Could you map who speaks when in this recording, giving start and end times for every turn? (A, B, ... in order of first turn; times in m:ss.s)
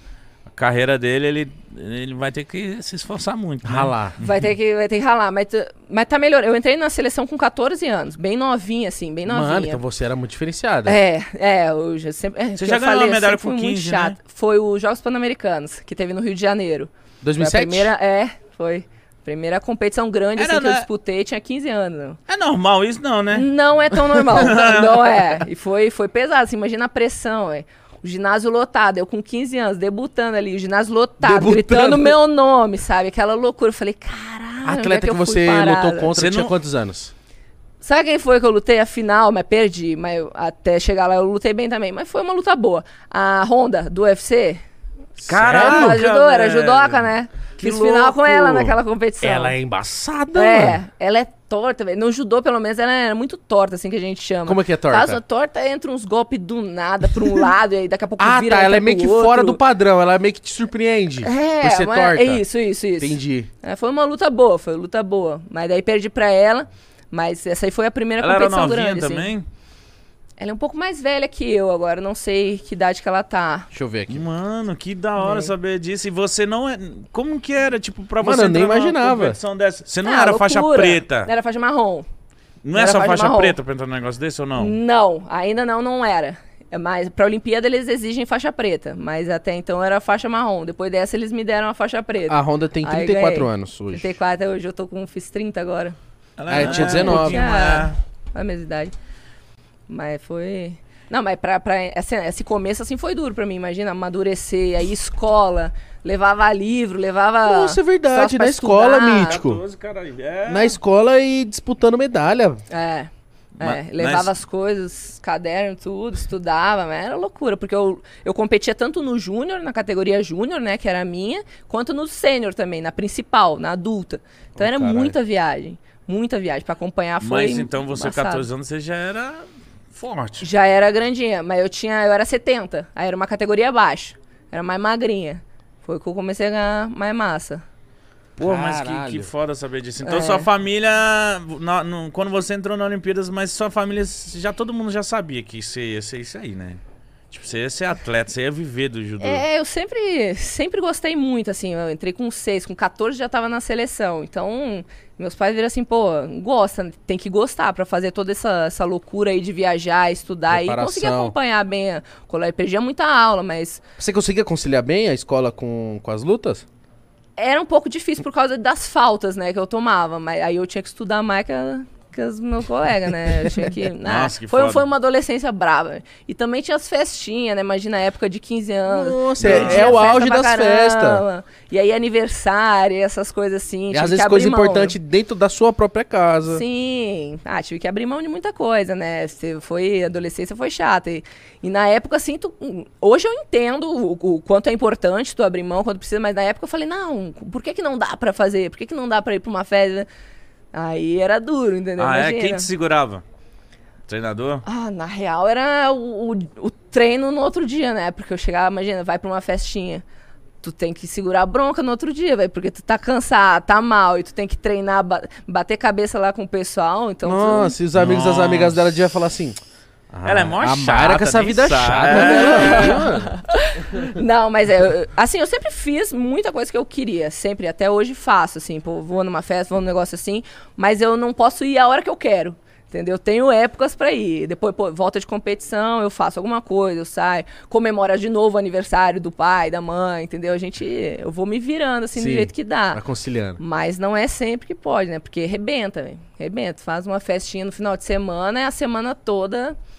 0:00.5-0:04.5 A
0:03.6-0:04.1 B
0:04.2-0:09.8 C
0:09.2-0:11.0 B
0:10.8-0:22.2 C
0:12.6-0:14.2 A
0:17.2-0:17.9 B
0:20.4-0:20.9 A
0:22.3-0:23.5 A
0:23.3-0:36.1 C
0:24.3-0:25.2 A
0:31.2-0:32.2 B
0:34.6-0:37.1 B
0:36.1-0:36.5 A
0:37.8-0:44.6 C
0:45.2-0:46.0 B
0:45.3-0:48.6 A
0:45.5-0:49.6 C
0:48.4-0:50.8 B
0:50.3-0:59.6 C
0:54.4-0:55.2 B
0:58.2-1:02.4 B
1:01.2-1:09.3 C
1:03.0-1:03.5 B
1:08.2-1:09.5 A
1:10.4-1:13.7 C
1:13.7-1:14.2 B
1:14.1-1:21.3 A
1:15.2-1:15.5 C
1:18.2-1:19.4 B
1:20.0-1:22.0 C
1:22.6-1:24.8 A
1:22.7-1:23.6 C
1:24.6-1:36.0 C
1:32.3-1:34.1 B
1:36.4-1:38.0 A
1:36.5-1:37.4 B
1:36.5-1:38.9 C
1:39.9-1:49.4 C
1:47.4-1:49.6 B
1:49.2-1:50.8 A
1:50.4-1:52.6 B
1:52.7-1:53.1 C
1:53.6-1:54.3 A
1:53.6-2:08.5 C
2:04.6-2:05.1 B
2:07.2-2:10.5 A
2:10.4-2:17.6 C
2:18.4-2:19.3 B
2:18.4-2:26.8 A
2:20.0-2:20.5 C
2:27.3-2:29.4 A
2:29.2-2:43.8 C
2:40.5-2:41.3 B
2:44.0-2:46.6 B
2:47.4-3:05.0 C
2:54.0-2:54.9 A
2:58.9-3:01.2 B
2:59.4-3:00.0 A
3:03.9-3:06.6 B
3:06.4-3:20.1 C
3:20.7-3:22.7 C
3:22.0-3:23.2 A
3:24.1-3:24.6 A
3:24.6-3:30.0 C
3:30.6-3:37.8 C
3:37.2-3:39.6 B
3:37.9-3:39.1 A
3:40.1-3:43.3 B
3:40.2-3:43.1 A
3:42.0-4:03.0 C
4:02.1-4:03.6 B
4:03.6-4:09.8 C